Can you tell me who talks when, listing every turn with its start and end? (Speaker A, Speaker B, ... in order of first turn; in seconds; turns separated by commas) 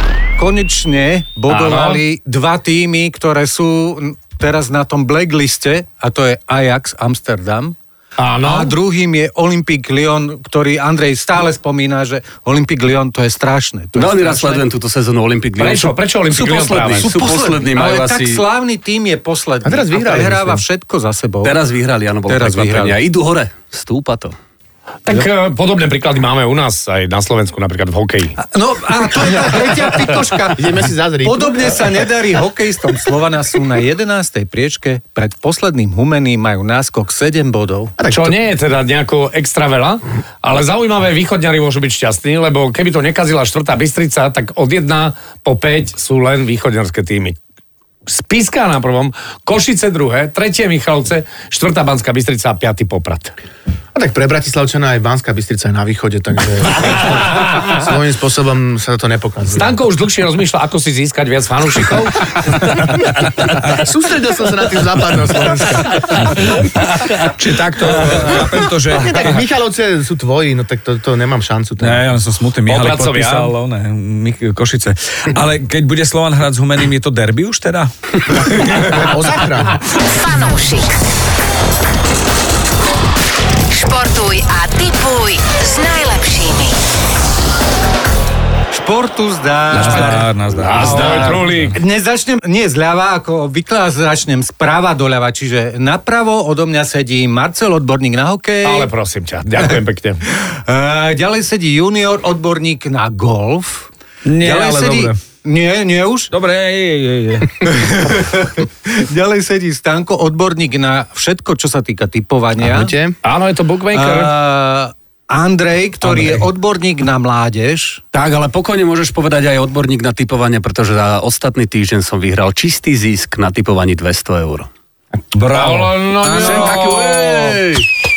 Speaker A: 0.4-7.8, Speaker B: 1.5-2.0, Speaker B: 8.2-8.7, Speaker A: 8.4-14.7, Speaker C: 13.9-18.4, Speaker B: 15.6-17.1, Speaker A: 17.0-21.6, Speaker D: 19.6-20.6, Speaker C: 21.4-24.3, Speaker A: 22.3-23.0, Speaker B: 25.1-28.4, Speaker A: 28.4-38.0, Speaker D: 30.5-31.9, Speaker D: 38.0-38.4, Speaker B: 38.1-47.4, Speaker B: 48.1-53.3, Speaker D: 53.9-59.8, Speaker B: 57.3-57.8, Speaker B: 59.5-63.0, Speaker D: 63.6-66.4, Speaker E: 67.1-69.4, Speaker D: 68.9-72.1, Speaker E: 71.8-79.0, Speaker B: 72.7-73.5, Speaker D: 78.5-79.8, Speaker F: 80.0-81.0, Speaker F: 83.7-86.8, Speaker A: 88.7-98.9, Speaker E: 89.7-91.8, Speaker B: 90.6-91.8, Speaker B: 98.6-100.2, Speaker A: 100.4-106.3, Speaker E: 104.2-105.2, Speaker E: 106.3-108.1, Speaker A: 107.6-112.9, Speaker D: 112.6-113.2, Speaker B: 113.2-114.3, Speaker A: 113.9-118.0, Speaker E: 116.0-116.4, Speaker C: 118.1-124.7, Speaker E: 125.3-127.6, Speaker B: 125.5-127.4, Speaker A: 126.2-127.0, Speaker C: 126.2-127.9